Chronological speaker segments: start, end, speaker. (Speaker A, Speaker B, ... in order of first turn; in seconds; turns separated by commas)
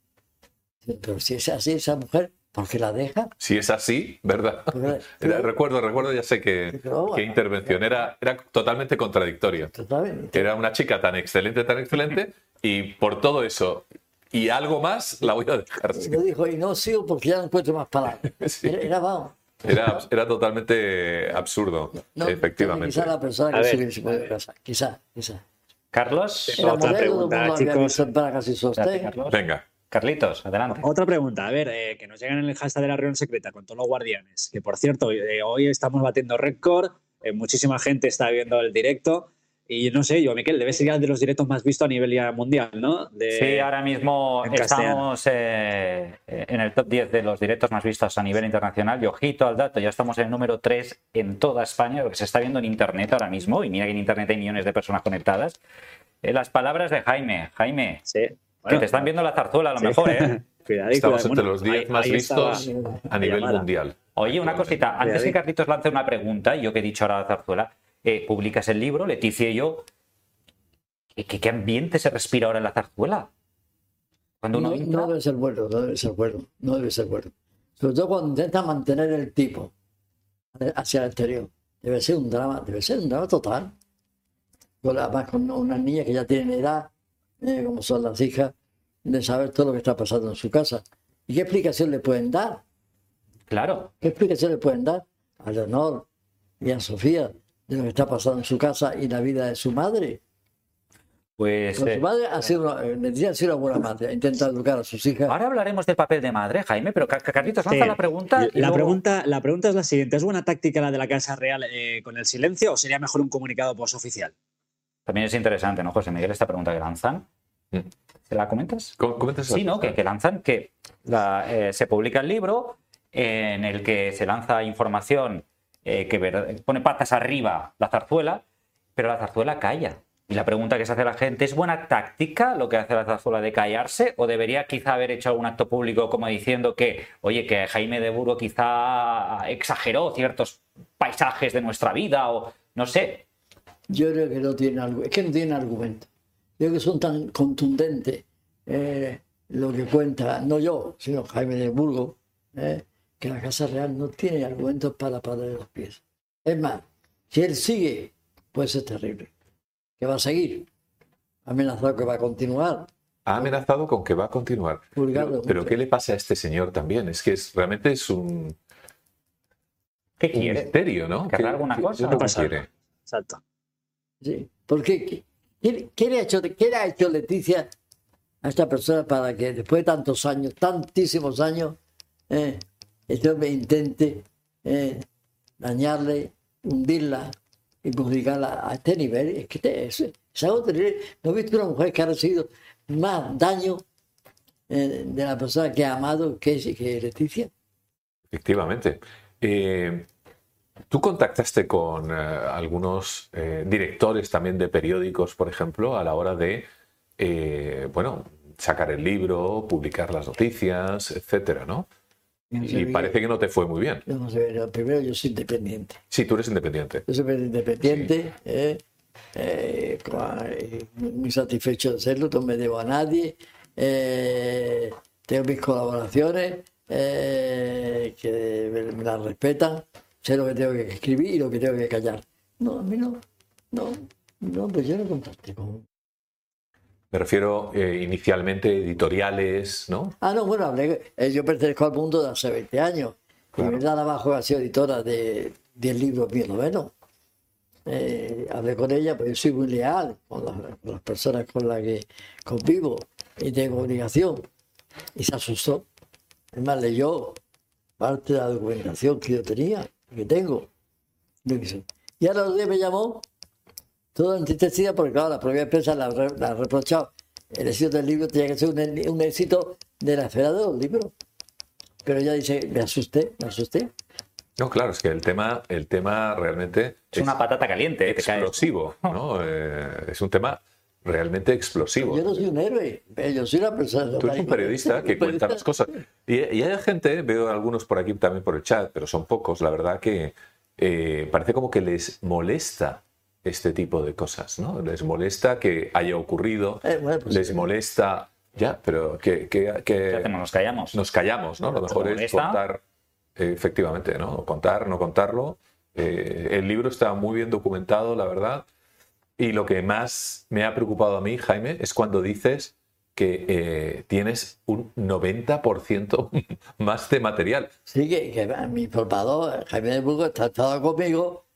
Speaker A: 0.8-3.3, Speaker B: 3.4-9.7, Speaker A: 4.7-5.5, Speaker A: 6.7-7.7, Speaker A: 9.7-10.5, Speaker B: 10.3-16.2, Speaker A: 15.9-20.0, Speaker B: 18.3-18.9, Speaker B: 19.6-23.1, Speaker A: 22.0-25.4, Speaker C: 23.5-23.9, Speaker D: 25.9-27.1, Speaker C: 26.5-28.1, Speaker A: 26.6-29.2, Speaker D: 28.7-30.9, Speaker B: 29.3-29.6, Speaker C: 30.8-43.7, Speaker D: 43.3-55.6, Speaker C: 44.4-45.0, Speaker D: 56.2-58.0, Speaker C: 58.1-59.0, Speaker D: 58.7-60.4, Speaker C: 59.8-63.6, Speaker B: 60.9-64.8, Speaker A: 62.5-63.1, Speaker D: 64.2-69.8, Speaker C: 65.0-65.4, Speaker D: 71.1-73.3, Speaker D: 74.4-75.1, Speaker A: 74.5-79.7, Speaker A: 80.5-83.7, Speaker A: 84.8-86.9, Speaker A: 87.4-88.5, Speaker A: 89.0-92.6, Speaker D: 93.5-93.9, Speaker A: 94.0-96.0, Speaker A: 96.6-100.2, Speaker D: 101.4-102.0, Speaker A: 101.7-105.3, Speaker D: 105.3-109.0, Speaker C: 107.7-114.3, Speaker D: 115.1-117.2, Speaker D: 118.3-128.4, Speaker B: 119.0-120.0, Speaker D: 128.9-143.2, Speaker A: 143.9-159.3, Speaker A: 160.0-160.7, Speaker A: 161.4-162.9, Speaker B: 163.2-168.6, Speaker A: 164.9-165.7, Speaker D: 170.2-170.7, Speaker B: 170.3-172.7, Speaker D: 171.2-172.3, Speaker C: 172.1-173.4, Speaker A: 174.2-177.7, Speaker A: 178.4-181.8, Speaker A: 182.3-185.1, Speaker A: 185.6-187.3, Speaker A: 187.8-193.8, Speaker A: 194.7-197.5, Speaker B: 198.3-200.1, Speaker B: 200.9-211.9, Speaker A: 212.5-213.1, Speaker B: 212.6-214.0, Speaker A: 214.1-216.0, Speaker B: 216.1-217.0, Speaker A: 217.1-218.8, Speaker B: 217.8-218.1, Speaker A: 219.3-235.8, Speaker B: 237.1-240.1, Speaker A: 240.2-246.9, Speaker A: 247.8-254.4, Speaker A: 255.2-255.8, Speaker A: 256.5-257.4, Speaker A: 258.0-260.7, Speaker A: 261.4-263.2, Speaker A: 264.1-271.1, Speaker A: 272.0-273.9, Speaker B: 274.6-277.4, Speaker D: 277.1-279.2, Speaker B: 278.0-282.4, Speaker A: 282.0-285.6, Speaker B: 284.2-300.3, Speaker A: 296.8-297.7, Speaker D: 300.1-301.0, Speaker B: 300.9-302.8, Speaker D: 301.9-302.6, Speaker B: 303.4-308.6, Speaker B: 309.4-317.7, Speaker A: 317.9-321.4